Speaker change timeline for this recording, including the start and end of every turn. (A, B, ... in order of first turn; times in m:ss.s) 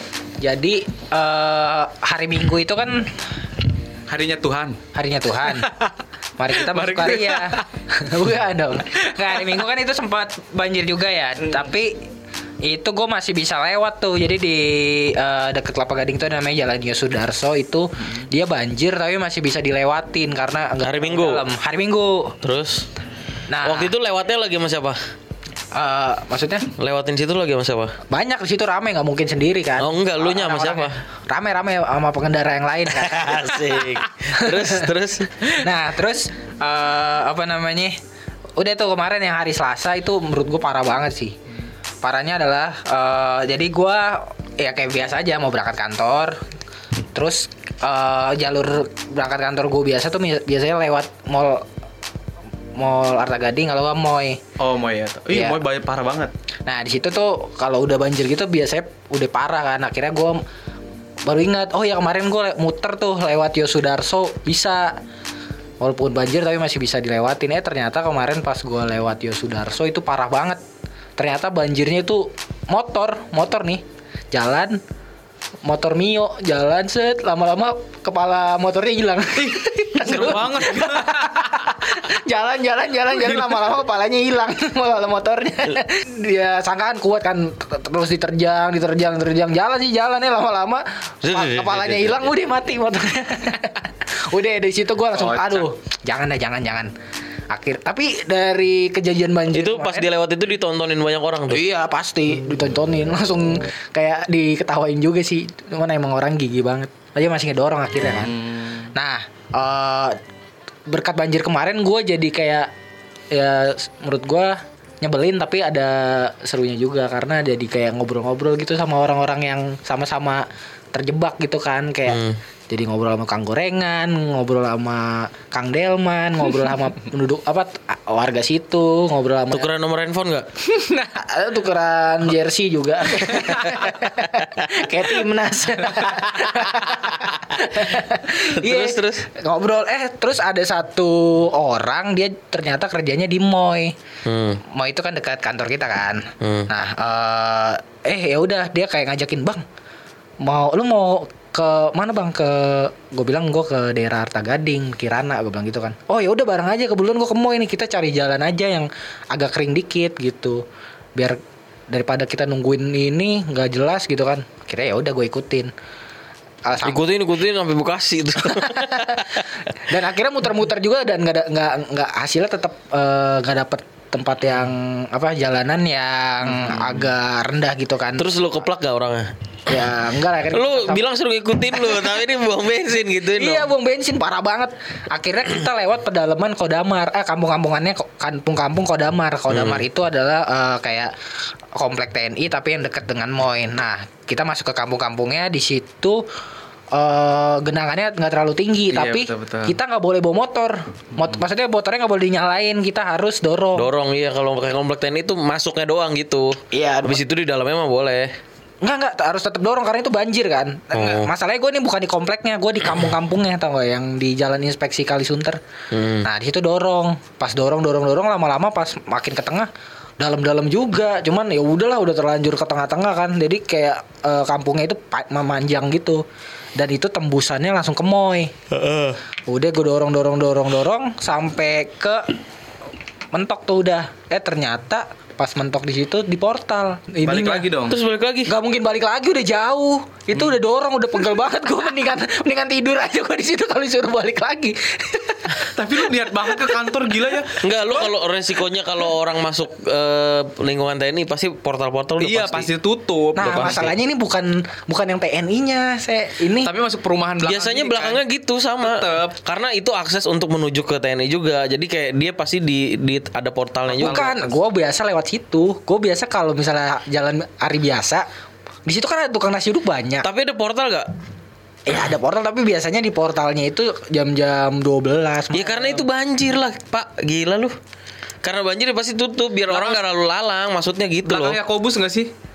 0:00.4-0:03.2 A
0:04.1-0:04.8 B
0:04.9-0:05.7 A
0:05.5-0:05.9 B
0:06.4-0:12.0 A
0:06.6-0:07.7 B
0:09.2-0:09.6 B
0:12.6-0:22.4 A
0:20.8-0:21.4 C
0:22.4-0:22.9 C
0:23.5-0:23.9 A
0:23.6-0:25.0 C
0:25.7-0:26.7 A
0:26.8-0:28.0 C
0:28.1-0:33.8 A
0:29.8-0:31.0 C
0:32.9-0:35.5 C
0:34.3-0:34.9 A
0:35.6-0:38.0 A
0:38.6-0:41.4 A
0:42.0-0:46.4 A
0:47.1-0:51.6 A
0:52.8-0:54.4 A
0:54.6-0:56.3 B
0:55.3-0:55.6 A
0:56.6-1:00.4 A
1:01.2-1:05.0 A
1:05.8-1:10.6 A
1:11.2-1:14.8 A
1:15.6-1:36.9 A
1:19.4-1:21.7 B
1:23.2-1:23.6 B
1:31.2-1:32.3 C
1:35.1-1:35.7 B
1:37.5-1:40.1 A
1:39.5-1:41.6 C
1:41.5-1:48.3 A
1:48.2-1:48.9 B
1:48.9-1:50.2 A
1:50.9-1:52.7 A
1:53.3-2:09.7 A
2:02.1-2:02.4 C
2:09.5-2:10.5 C
2:10.6-2:11.1 B
2:11.1-2:23.9 A
2:14.0-2:14.7 C
2:15.9-2:16.5 B
2:17.5-2:19.2 C
2:24.2-2:24.6 C
2:24.7-2:29.6 A
2:26.4-2:26.7 C
2:30.4-2:40.6 A
2:41.9-2:45.7 A
2:46.6-2:47.0 A
2:46.8-2:49.5 C
2:48.4-2:58.3 A
2:58.2-2:59.3 C
2:59.7-3:01.0 A
3:00.5-3:03.7 C
3:03.3-3:11.1 A
3:09.5-3:09.8 C
3:11.7-3:16.2 A
3:16.9-3:23.9 A
3:18.9-3:19.8 B
3:23.7-3:28.3 C
3:26.7-3:27.2 A
3:28.8-3:35.6 A
3:30.9-3:31.3 C
3:35.9-3:36.3 C
3:36.2-3:39.7 A
3:40.2-3:46.2 A
3:46.8-3:48.5 A
3:48.7-3:49.2 C
3:49.5-3:52.3 A
3:53.3-3:57.6 A
3:57.2-3:58.0 B
3:57.9-3:58.5 C
3:58.5-4:05.7 A
4:05.6-4:07.6 B
4:06.4-4:06.7 A
4:07.6-4:12.7 C
4:12.2-4:13.8 B
4:13.4-4:13.9 C
4:13.4-4:16.7 A
4:16.6-4:18.2 B
4:17.4-4:24.4 C
4:18.8-4:19.3 B
4:23.9-4:28.2 A
4:24.0-4:24.4 B
4:28.8-4:30.3 A
4:30.2-4:31.1 C
4:31.8-4:36.0 A
4:35.5-4:37.7 C
4:38.4-4:41.6 C
4:39.7-4:40.0 B
4:41.2-4:42.3 B